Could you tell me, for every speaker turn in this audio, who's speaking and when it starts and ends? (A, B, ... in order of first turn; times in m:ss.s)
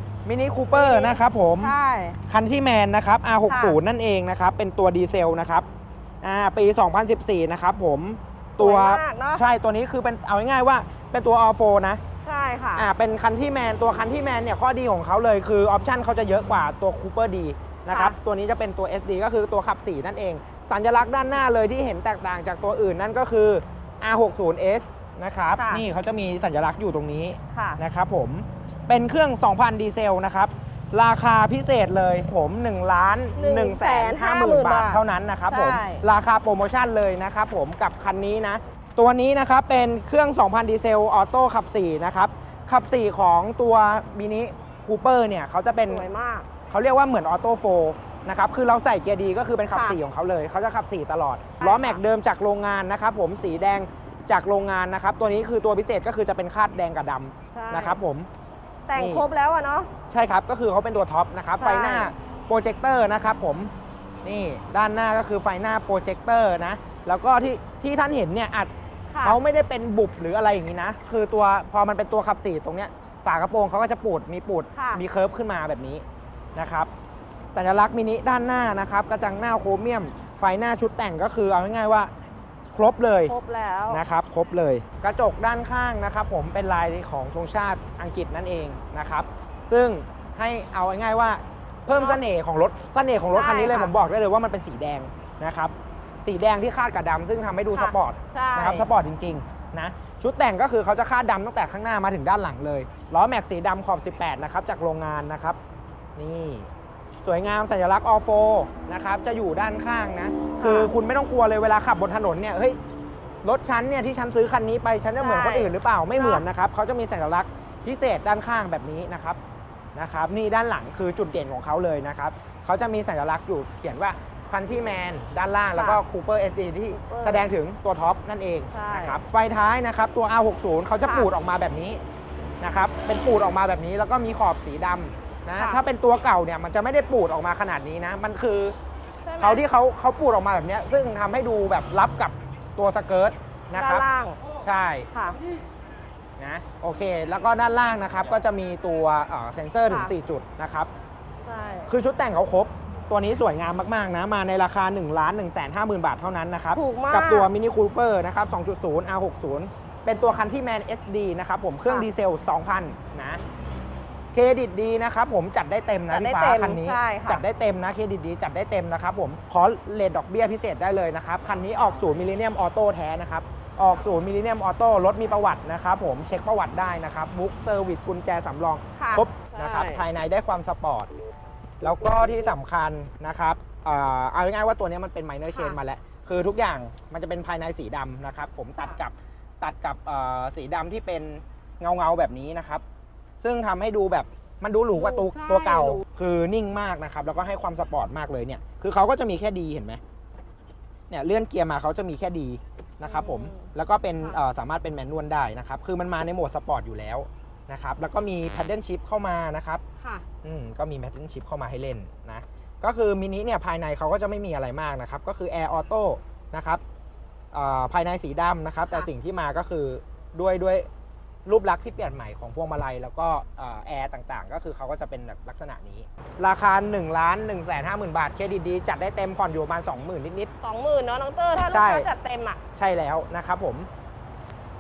0:00.3-0:01.7 A
0:00.7-0:02.2 B
0:02.3-0:05.7 A
0:03.5-0:03.8 B
0:06.2-0:12.0 A
0:08.6-0:09.4 B
0:12.2-0:12.9 B
0:12.8-0:46.1 A
0:17.9-0:18.2 B
0:25.6-0:25.9 B
0:27.5-0:27.8 B
0:33.4-0:36.0 B
0:45.8-0:46.5 B
0:46.7-0:58.3 A
0:49.7-0:50.0 B
0:51.6-0:52.0 B
0:57.5-0:58.0 B
0:58.9-0:59.9 B
0:59.0-0:59.2 A
1:00.1-1:03.7 A
1:01.6-1:02.1 B
1:04.2-1:16.0 A
1:09.1-1:09.4 B
1:14.7-1:15.0 B
1:16.6-1:16.9 A
1:17.6-1:22.1 A
1:22.7-1:23.4 A
1:23.3-1:24.0 B
1:23.9-1:45.6 A
1:31.9-1:32.2 B
1:33.3-1:33.9 B
1:37.7-1:38.9 B
1:46.2-1:46.7 A
1:47.2-1:52.8 A
1:50.6-1:50.9 B
1:53.4-1:59.4 A
1:55.2-1:56.4 B
2:00.0-2:12.0 A
2:05.7-2:06.0 B
2:06.9-2:07.5 B
2:08.7-2:09.2 B
2:11.0-2:11.3 B
2:12.6-2:18.8 A
2:19.2-2:19.6 B
2:19.4-2:24.1 A
2:23.8-2:24.4 B
2:24.6-2:25.1 A
2:25.1-2:25.4 B
2:26.4-2:30.9 A
2:29.9-2:30.1 B
2:31.4-2:31.9 B
2:31.9-2:43.4 A
2:36.7-2:37.5 B
2:44.3-3:01.1 A
2:46.1-2:47.4 B
2:59.0-3:00.0 B
3:01.8-3:12.8 A
3:05.5-3:05.8 B
3:13.4-3:20.0 A
3:15.0-3:16.0 B
3:21.1-3:29.8 A
3:23.0-3:23.7 B
3:30.0-3:30.2 B
3:30.4-3:36.8 A
3:37.5-3:40.9 A
3:41.5-3:50.5 A
3:50.6-3:52.6 B
3:51.7-3:52.1 A
3:52.8-3:53.9 A